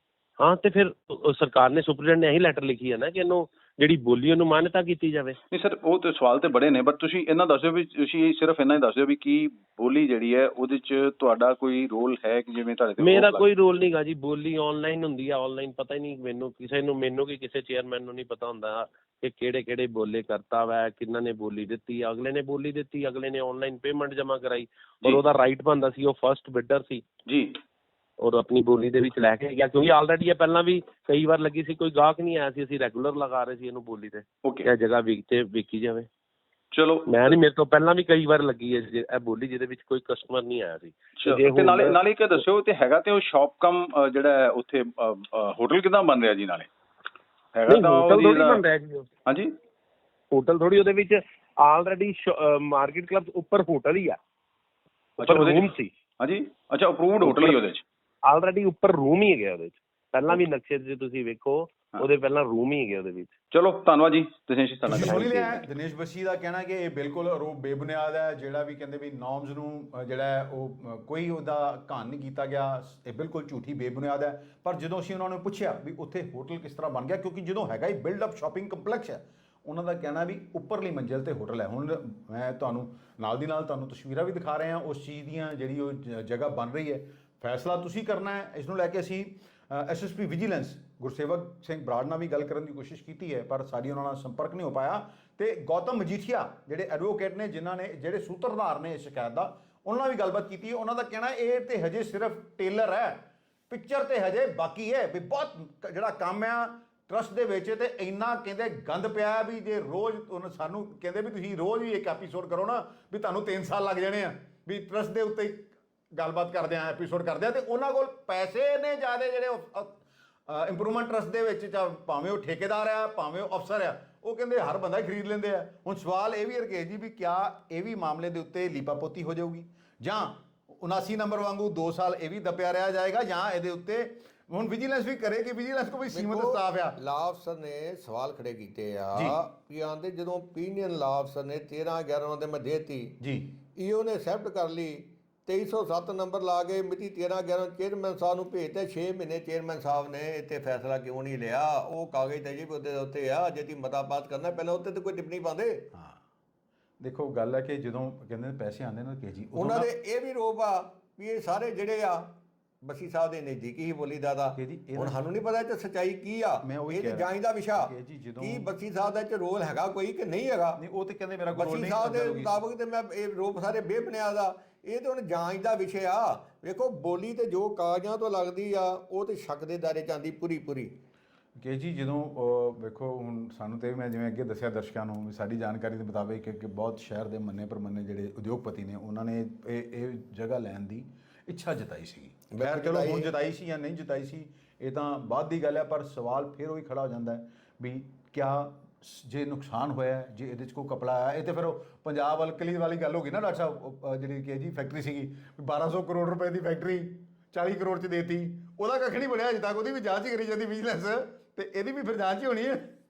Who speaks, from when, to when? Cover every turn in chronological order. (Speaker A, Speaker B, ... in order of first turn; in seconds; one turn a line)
Speaker A: 0.4-5.4
Speaker B: 5.5-13.5
Speaker A: 13.0-27.1
Speaker B: 27.3-27.6
Speaker A: 28.2-36.1
Speaker B: 34.4-34.7
Speaker B: 36.7-37.4
Speaker A: 37.1-42.0
Speaker B: 41.2-46.7
Speaker B: 47.5-48.6
Speaker A: 47.7-49.1
Speaker B: 49.2-49.5
Speaker A: 50.3-54.2
Speaker A: 55.2-55.9
Speaker B: 55.2-57.8
Speaker A: 57.2-57.6
Speaker A: 58.2-63.3
Speaker B: 63.5-65.6
Speaker C: 64.8-136.9
Speaker A: 64.9-65.4
Speaker D: 136.1-143.2
Speaker C: 143.2-143.5
Speaker D: 143.7-155.8
Speaker C: 155.9-156.2
Speaker C: 157.0-159.9
Speaker D: 159.5-170.8
Speaker C: 164.6-165.2
Speaker C: 166.6-168.7
Speaker C: 170.8-172.6
Speaker D: 171.5-181.0
Speaker C: 181.6-212.9
Speaker D: 192.5-193.3